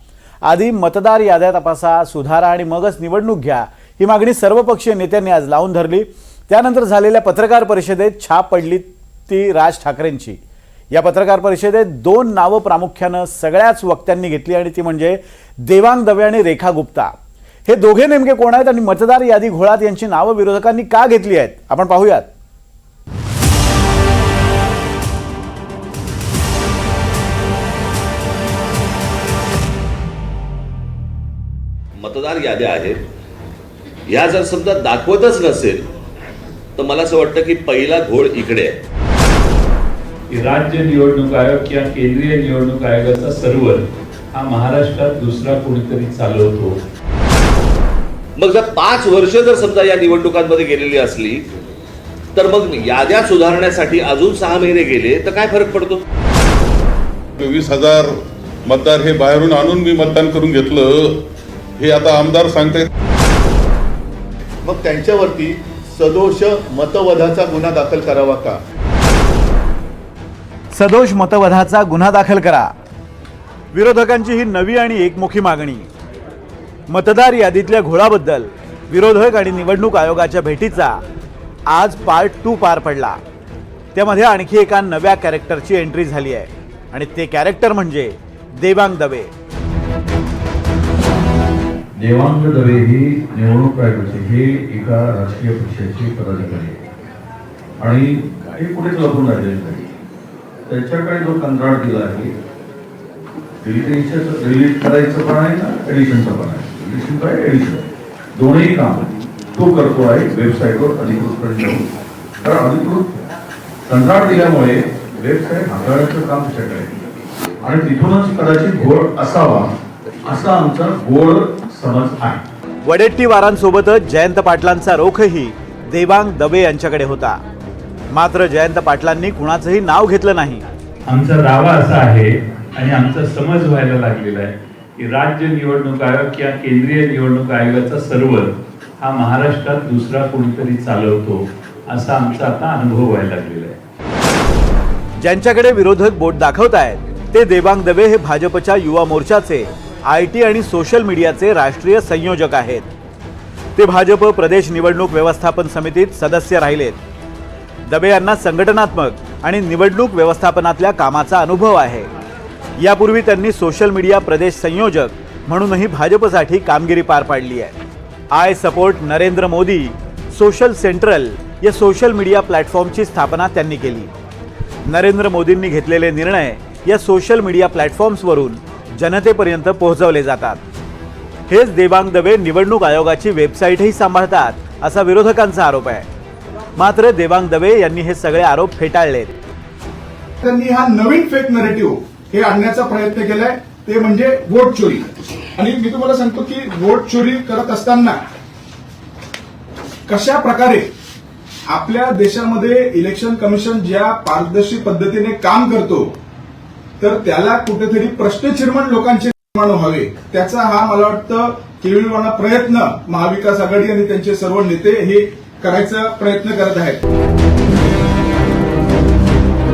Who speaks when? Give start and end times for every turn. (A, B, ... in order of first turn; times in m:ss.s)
0:00.4-0:10.4 A
0:10.9-0:17.1 A
0:17.7-0:22.3 A
0:32.0-0:33.0 B
0:34.1-0:35.9 B
0:36.8-0:38.8 B
0:40.3-0:43.8 C
0:44.3-0:46.8 C
0:48.4-0:51.4 B
0:52.4-0:56.0 B
0:57.4-0:58.1 D
0:58.6-1:01.2 D
1:01.8-1:02.9 D
1:04.6-1:08.6 E
1:10.7-1:12.7 A
1:13.7-1:15.9 A
1:16.9-1:21.0 A
1:21.7-1:23.2 A
1:23.9-1:29.3 A
1:32.0-1:36.8 F
1:37.8-1:39.9 F
1:40.6-1:42.3 F
1:43.6-1:51.9 F
1:52.4-1:53.2 F
1:53.8-1:56.9 F
1:57.6-1:59.7 F
2:00.2-2:02.4 F
2:02.8-2:07.4 A
2:08.1-2:10.6 A
2:11.1-2:23.8 C
2:25.2-2:32.9 A
2:33.8-2:37.0 A
2:37.9-2:42.1 A
2:42.8-2:47.8 A
2:48.3-2:54.1 A
2:54.9-3:00.6 A
3:01.5-3:06.0 A
3:06.8-3:09.3 A
3:10.4-3:18.2 G
3:20.1-3:20.9 G
3:21.7-3:26.1 G
3:27.0-3:37.0 G